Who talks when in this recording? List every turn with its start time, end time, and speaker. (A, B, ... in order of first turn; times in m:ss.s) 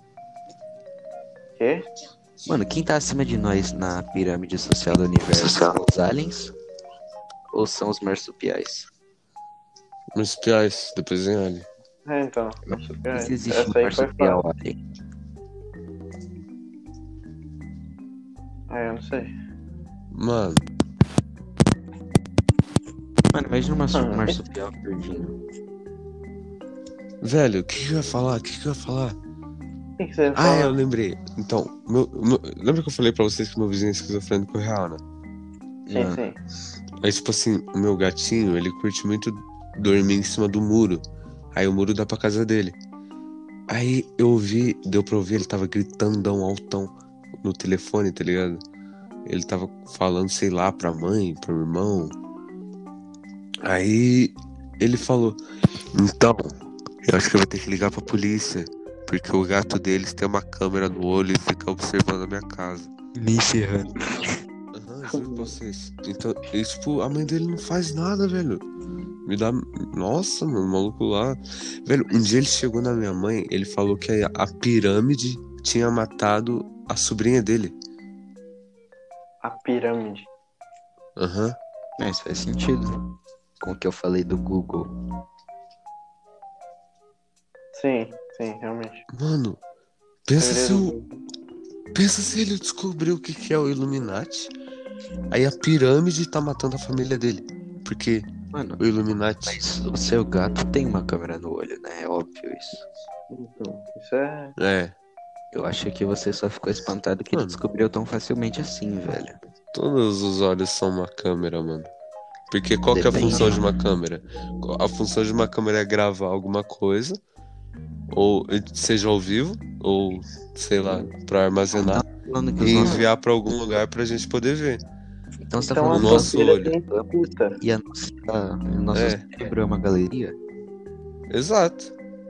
0:01.6-0:01.9 A
0:02.4-0:06.5 B
0:07.5-0:08.9 B
0:10.2-0:11.7 C
0:12.1-0:14.4 A
0:12.7-0:14.8 B
0:18.7-0:19.3 A
0:20.1-0:20.6 C
0:23.3-0:25.4 B
0:23.9-0:24.4 A
0:27.2-0:29.2 C
0:30.0-0:30.8 A
0:30.4-0:35.0 C
0:35.9-0:36.2 B
0:35.9-0:36.4 A
0:37.0-0:41.0 C
0:41.5-0:42.8 C
0:43.7-0:48.6 C
0:49.3-0:52.2 C
0:53.6-0:55.4 C
0:55.9-1:02.9 C
1:03.2-1:04.4 B
1:04.7-1:08.6 C
1:05.1-1:05.5 A
1:09.3-1:17.8 C
1:19.4-1:20.3 A
1:21.2-1:21.6 C
1:22.0-1:23.0 B
1:23.6-1:24.9 B
1:27.7-1:29.0 A
1:29.1-1:29.6 C
1:30.3-1:31.0 C
1:30.4-1:31.2 A
1:31.9-1:34.5 C
1:35.3-1:39.6 C
1:38.5-1:38.8 B
1:39.5-1:42.8 B
1:43.3-1:44.5 A
1:44.6-1:45.0 C
1:45.5-1:49.4 B
1:47.3-1:47.6 C
1:49.7-1:51.9 C
1:52.5-1:57.2 C
1:52.9-1:53.6 B
1:58.1-2:02.1 C
2:01.7-2:03.1 B
2:02.6-2:04.8 C
2:02.8-2:03.1 A
2:05.4-2:10.4 B
2:05.6-2:07.6 A
2:05.9-2:06.8 C
2:08.9-2:09.3 C
2:11.3-2:11.9 C